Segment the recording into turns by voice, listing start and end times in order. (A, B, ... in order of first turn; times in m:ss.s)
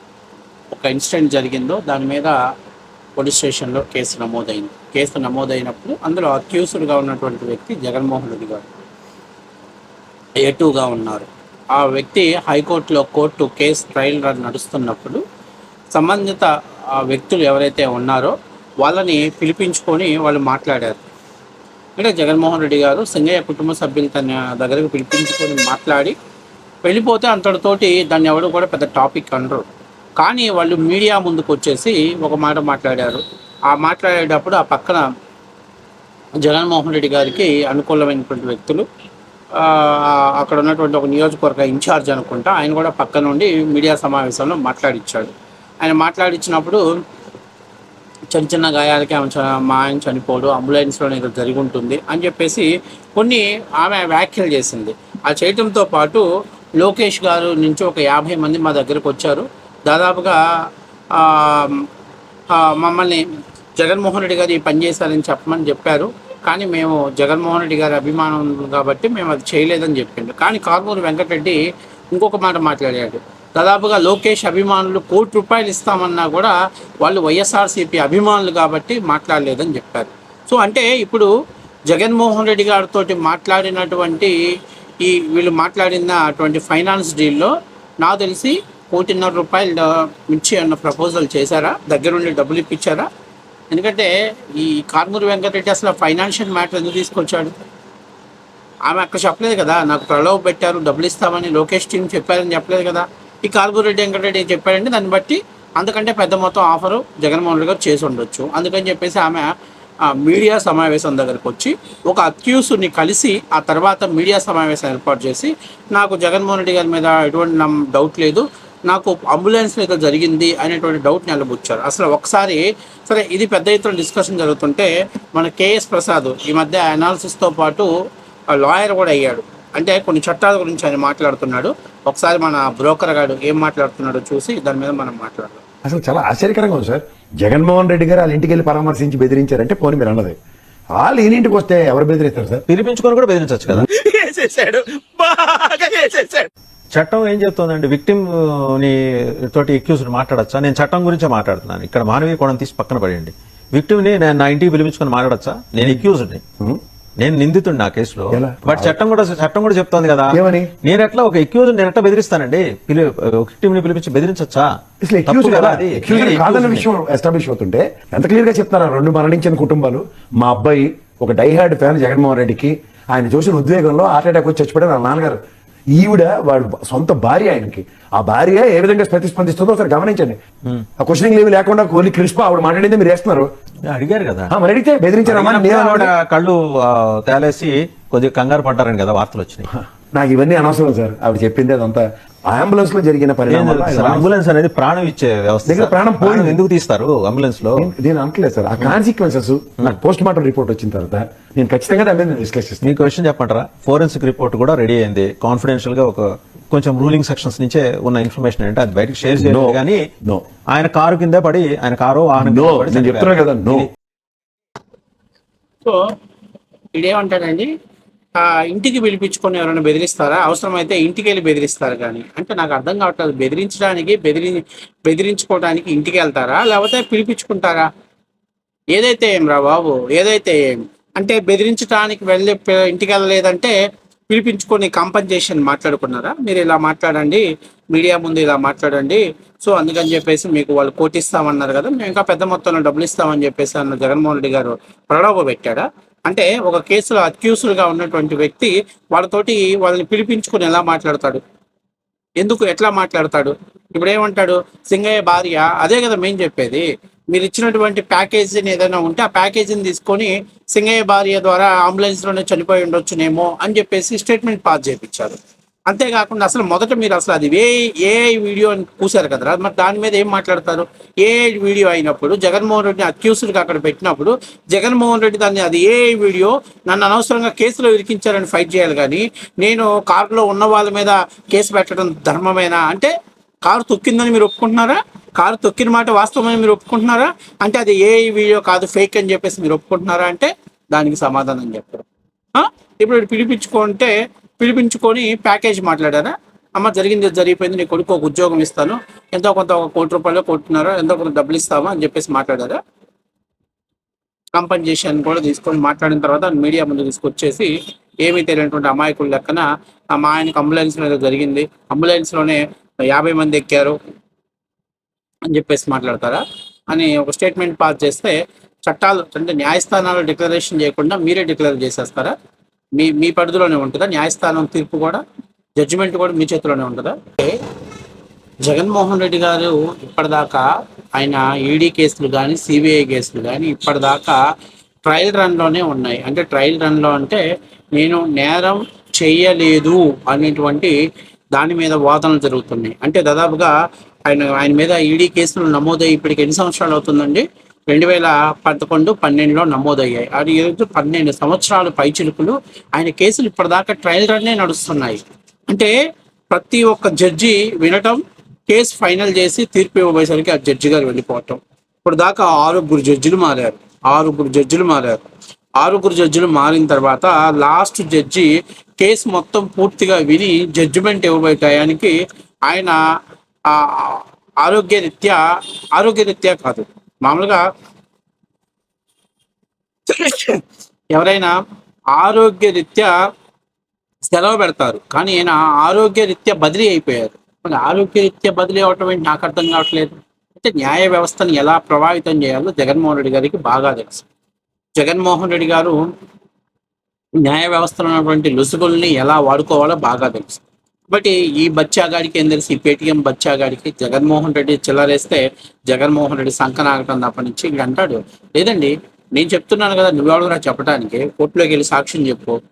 0:00.7-0:02.4 A
0:03.2-0:08.7 A
0:10.4-0:15.2 A
0:15.9-0:21.0 A
0:22.0-0:26.1 A
0:26.8-0:29.6 A
0:30.2-0:35.0 A
0:36.4-0:38.8 A
0:39.6-0:46.8 A
0:48.3-0:56.2 A
0:56.8-1:00.4 A
1:01.1-1:01.8 A
1:02.6-1:03.2 A
1:03.8-1:11.6 A
1:12.1-1:21.3 A
1:21.9-1:24.3 A
1:25.0-1:33.1 A
1:33.7-1:37.6 A
1:38.9-1:49.5 A
1:50.0-2:07.9 A
2:08.6-2:15.6 A
2:15.8-2:20.3 B
2:21.0-2:22.6 B
2:22.7-2:23.9 C
2:24.1-2:24.8 A
2:25.2-2:26.3 C
2:26.9-2:36.4 C
2:37.2-2:44.7 C
2:38.3-2:39.0 B
2:40.3-2:40.7 B
2:45.0-2:55.4 B
2:45.2-2:46.8 C
2:55.9-3:00.4 B
3:01.0-3:03.5 B
3:03.9-3:04.5 C
3:04.5-3:06.1 B
3:05.2-3:09.6 C
3:09.7-3:14.3 B
3:13.5-3:17.9 C
3:15.6-3:16.6 B
3:17.8-3:22.9 B
3:22.8-3:30.0 C
3:29.4-3:30.4 B
3:30.7-3:33.9 C
3:32.4-3:33.9 B
3:36.9-3:37.7 A
3:38.4-3:47.9 A
3:48.9-3:53.7 A
3:54.3-4:11.4 A
4:12.4-4:25.4 A
4:25.9-4:43.1 A
4:43.6-4:52.0 A
4:52.6-5:02.8 A
5:04.5-5:07.7 A
5:08.2-5:14.0 A
5:15.5-5:18.3 A
5:18.8-5:22.3 A
5:23.0-5:25.2 A
5:25.8-5:27.6 A
5:28.6-5:34.4 A
5:35.0-5:37.4 A
5:37.9-5:40.9 A
5:41.5-5:43.7 A
5:44.3-5:55.9 A
5:56.5-6:05.2 A
6:05.8-6:12.1 A
6:12.7-6:13.0 A
6:13.7-6:15.4 A
6:16.0-6:17.6 A
6:20.1-6:20.6 A
6:21.1-6:21.5 A
6:22.2-6:23.1 A
6:24.3-6:34.2 A
6:35.0-6:36.0 A
6:37.4-6:52.6 A